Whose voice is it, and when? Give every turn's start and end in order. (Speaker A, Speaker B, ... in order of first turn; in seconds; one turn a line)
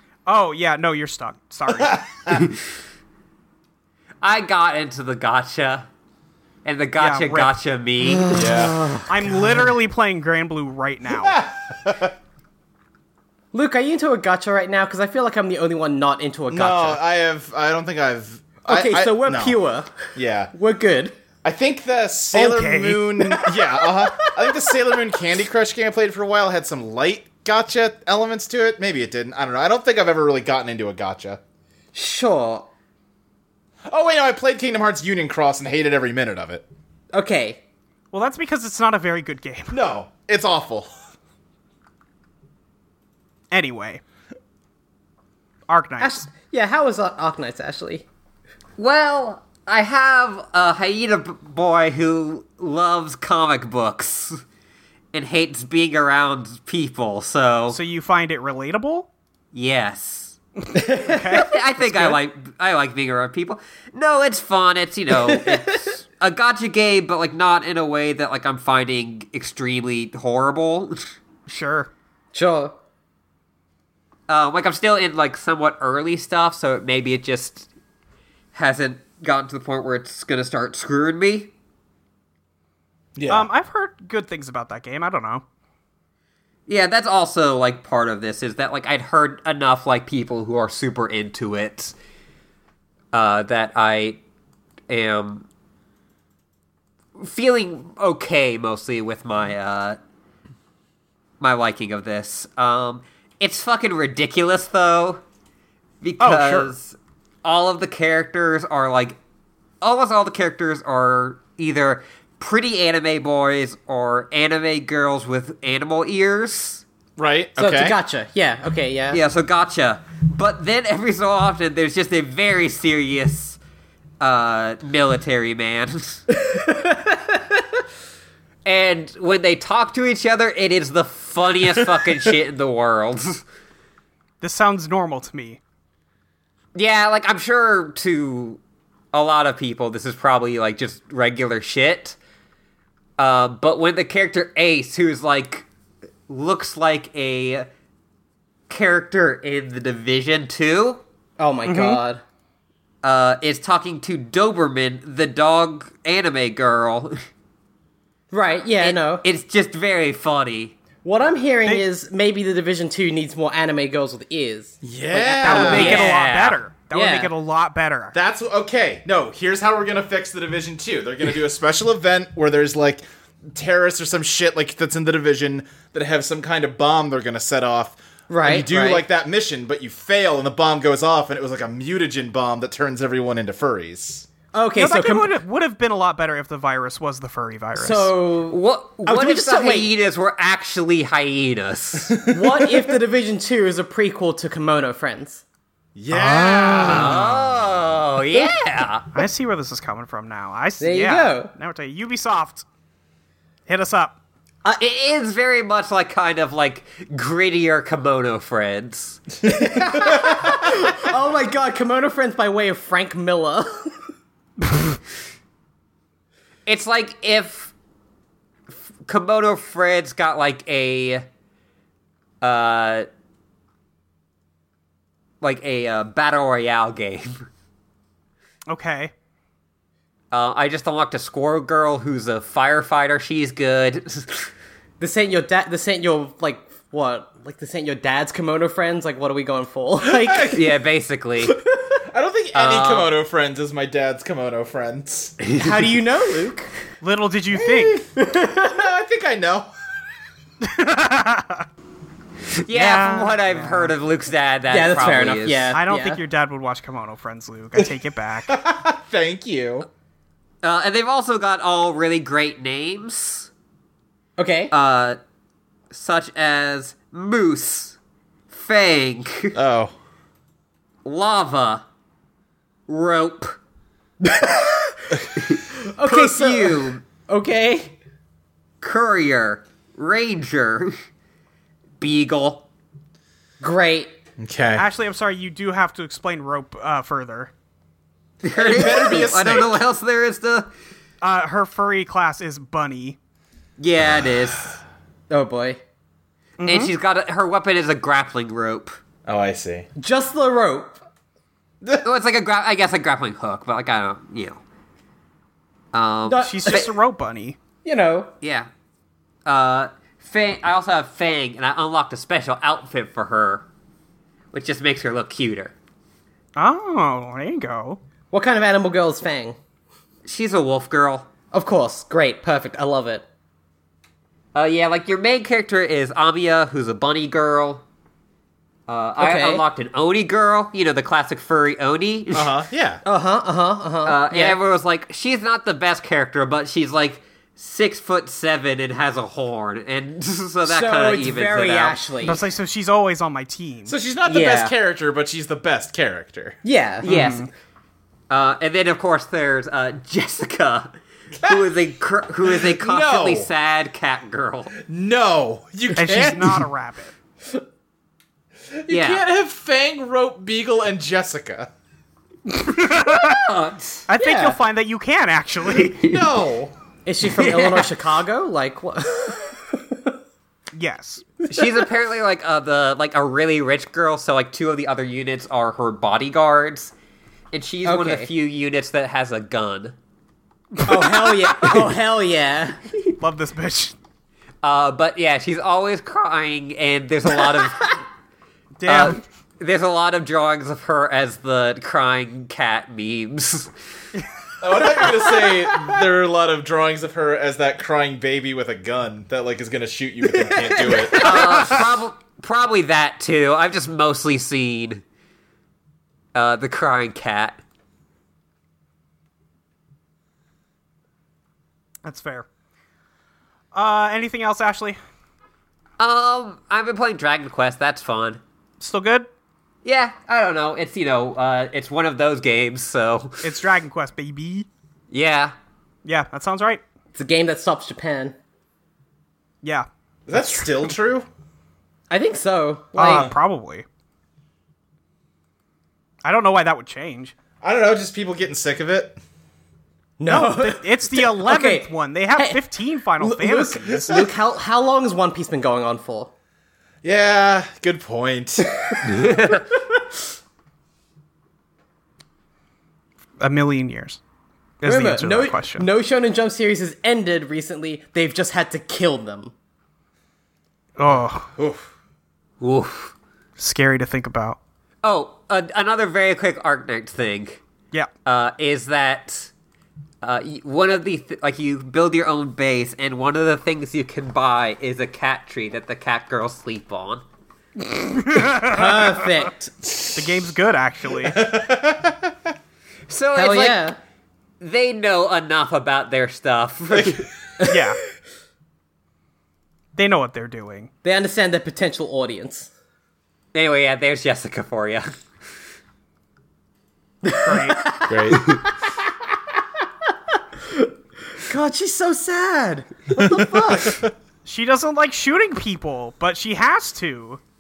Speaker A: 0.3-2.0
Speaker B: 1.7-2.4
Speaker C: 4.2-5.9
Speaker C: 6.7-8.4
Speaker A: 7.0-7.5
Speaker D: 8.3-9.7
Speaker B: 8.3-8.8
Speaker A: 9.1-11.4
Speaker B: 11.1-12.2
Speaker D: 13.5-17.0
Speaker B: 16.5-19.6
Speaker D: 18.6-21.1
Speaker B: 20.1-20.5
Speaker B: 21.4-31.4
Speaker A: 22.3-23.2
Speaker D: 23.4-24.8
Speaker D: 31.9-32.7
Speaker B: 33.9-36.6
Speaker D: 37.1-37.6
Speaker A: 38.1-39.8
Speaker B: 39.7-40.9
Speaker A: 43.5-44.0
Speaker A: 45.7-46.2
Speaker D: 46.0-48.1
Speaker C: 48.8-54.4
Speaker C: 55.1-57.8
Speaker A: 57.7-59.1
Speaker C: 59.5-60.4
Speaker D: 60.8-61.4
Speaker A: 60.8-62.2
Speaker C: 61.3-71.1
Speaker D: 65.3-65.8
Speaker A: 71.5-71.9
Speaker D: 72.3-72.8
Speaker C: 74.3-77.7
Speaker C: 78.5-81.5
Speaker B: 83.2-83.5
Speaker A: 83.3-85.4
Speaker C: 86.7-92.0
Speaker C: 93.1-94.2
Speaker C: 94.9-95.5
Speaker C: 97.2-100.0
Speaker C: 101.4-105.2
Speaker C: 106.0-109.2
Speaker A: 106.2-106.7
Speaker C: 109.8-116.8
Speaker B: 117.2-118.0
Speaker D: 117.6-119.2
Speaker C: 119.1-123.6
Speaker C: 124.2-126.2
Speaker D: 126.3-127.6
Speaker C: 128.7-133.4
Speaker A: 134.4-135.6
Speaker C: 136.8-138.6
Speaker C: 139.1-142.2
Speaker C: 143.2-145.7
Speaker C: 146.3-147.7
Speaker C: 148.7-151.0
Speaker D: 151.4-152.2
Speaker A: 151.7-152.0
Speaker C: 153.0-157.2
Speaker D: 158.3-159.2
Speaker C: 158.8-160.8
Speaker D: 161.0-166.1
Speaker B: 164.8-166.1
Speaker A: 165.2-168.2
Speaker C: 165.5-166.6
Speaker D: 166.9-167.3
Speaker B: 168.1-184.3
Speaker D: 178.3-179.0
Speaker D: 184.5-185.3
Speaker A: 184.8-188.1
Speaker D: 187.8-189.9
Speaker C: 188.5-192.2
Speaker B: 192.1-192.7
Speaker D: 192.3-195.4
Speaker B: 196.0-197.2
Speaker A: 196.1-197.4
Speaker C: 196.8-199.1
Speaker A: 199.2-202.7
Speaker D: 200.8-201.5
Speaker A: 203.7-204.2
Speaker C: 204.8-209.2
Speaker D: 209.4-213.9
Speaker B: 209.5-211.0
Speaker C: 216.7-217.7
Speaker C: 219.1-221.2
Speaker C: 222.4-223.1
Speaker C: 225.4-227.5
Speaker A: 228.7-229.1
Speaker C: 230.3-234.5
Speaker D: 235.0-240.6
Speaker B: 240.0-240.6
Speaker C: 240.5-241.6
Speaker D: 241.5-242.0
Speaker B: 242.1-245.4
Speaker C: 242.5-243.1
Speaker C: 245.4-245.8
Speaker D: 245.6-246.7
Speaker A: 247.0-248.1
Speaker B: 247.6-248.0
Speaker D: 248.1-248.8
Speaker B: 248.7-249.7
Speaker A: 250.6-251.7
Speaker C: 252.6-255.7
Speaker A: 252.7-253.9
Speaker D: 254.7-256.2
Speaker A: 255.7-258.6
Speaker B: 258.5-259.9
Speaker C: 260.6-263.5
Speaker D: 264.4-264.7
Speaker C: 264.7-265.2
Speaker C: 265.9-268.0
Speaker C: 268.5-269.6
Speaker B: 269.6-269.9
Speaker C: 271.1-271.8
Speaker C: 272.9-273.6
Speaker D: 274.2-278.0
Speaker C: 275.5-277.0
Speaker C: 278.8-280.9
Speaker C: 282.0-282.7
Speaker D: 283.6-284.1
Speaker B: 284.4-284.9
Speaker A: 284.8-287.5
Speaker C: 288.4-290.7
Speaker B: 288.5-289.8
Speaker A: 291.2-293.2
Speaker C: 293.8-294.8
Speaker D: 295.3-295.8
Speaker A: 296.6-296.9
Speaker C: 296.6-299.0
Speaker B: 299.3-299.9
Speaker D: 300.0-301.0
Speaker C: 302.0-304.6
Speaker C: 305.9-306.9
Speaker D: 306.3-306.9
Speaker A: 306.4-307.6
Speaker D: 307.8-308.3
Speaker C: 308.4-308.7
Speaker C: 309.5-313.6
Speaker C: 314.5-315.7
Speaker A: 316.6-318.0
Speaker D: 318.3-319.6
Speaker C: 320.3-321.3
Speaker D: 321.5-323.2
Speaker C: 324.5-327.8
Speaker C: 328.9-332.5
Speaker D: 329.2-329.6
Speaker B: 332.3-333.0
Speaker D: 333.1-334.6
Speaker C: 334.1-342.0
Speaker D: 340.6-342.4
Speaker A: 342.2-343.9
Speaker B: 343.9-346.6
Speaker D: 344.3-344.7
Speaker D: 346.6-347.1
Speaker C: 347.0-347.5
Speaker A: 347.1-347.5
Speaker C: 348.3-354.8
Speaker B: 351.4-351.7
Speaker B: 352.4-353.5
Speaker B: 354.9-356.7
Speaker A: 356.0-357.1
Speaker B: 358.8-361.7
Speaker C: 358.9-359.2
Speaker A: 362.5-363.4
Speaker C: 363.1-364.1
Speaker A: 364.1-366.0
Speaker D: 364.2-364.6
Speaker C: 365.9-366.3
Speaker B: 366.0-366.7
Speaker D: 367.1-370.0
Speaker C: 367.3-367.9
Speaker A: 370.7-371.3
Speaker C: 371.5-376.9
Speaker C: 377.5-379.9
Speaker D: 377.8-378.3
Speaker A: 380.8-381.3
Speaker D: 380.9-382.8
Speaker A: 383.2-384.0
Speaker C: 384.6-388.0
Speaker A: 388.8-389.2
Speaker C: 388.9-393.7
Speaker B: 394.6-401.9
Speaker D: 394.8-395.7
Speaker D: 400.3-401.4
Speaker C: 401.2-405.0
Speaker C: 406.4-407.6
Speaker A: 412.0-412.5
Speaker A: 413.7-415.0
Speaker C: 416.0-418.4
Speaker A: 418.8-419.3
Speaker C: 419.9-423.5
Speaker A: 423.4-424.7
Speaker C: 425.1-425.6
Speaker A: 426.1-426.8
Speaker D: 427.1-428.4
Speaker A: 429.6-430.9
Speaker B: 430.3-431.3
Speaker D: 432.1-433.3
Speaker A: 433.0-433.9
Speaker B: 433.1-433.3
Speaker A: 436.2-437.3
Speaker B: 437.6-439.2
Speaker D: 440.2-442.6
Speaker A: 440.3-444.2
Speaker D: 443.2-446.3
Speaker B: 447.0-449.1
Speaker D: 448.9-449.2
Speaker C: 449.1-449.6
Speaker A: 453.4-454.2
Speaker A: 454.8-455.9
Speaker D: 454.8-459.5
Speaker A: 461.0-461.5
Speaker B: 461.1-461.9
Speaker C: 462.6-463.1
Speaker A: 463.6-464.6
Speaker C: 465.0-467.6
Speaker C: 468.2-469.5
Speaker C: 470.2-477.2
Speaker A: 478.0-479.2
Speaker D: 478.6-479.7
Speaker B: 479.8-480.4
Speaker A: 480.1-481.4
Speaker B: 481.2-482.5
Speaker C: 483.1-483.9
Speaker D: 483.4-484.0
Speaker C: 484.6-487.3
Speaker A: 487.7-488.0
Speaker A: 490.0-490.9
Speaker D: 491.0-492.7
Speaker C: 493.5-495.1
Speaker D: 497.2-498.7
Speaker A: 497.4-497.9
Speaker B: 498.1-498.4
Speaker D: 500.7-504.0
Speaker B: 503.2-504.1
Speaker A: 504.4-507.4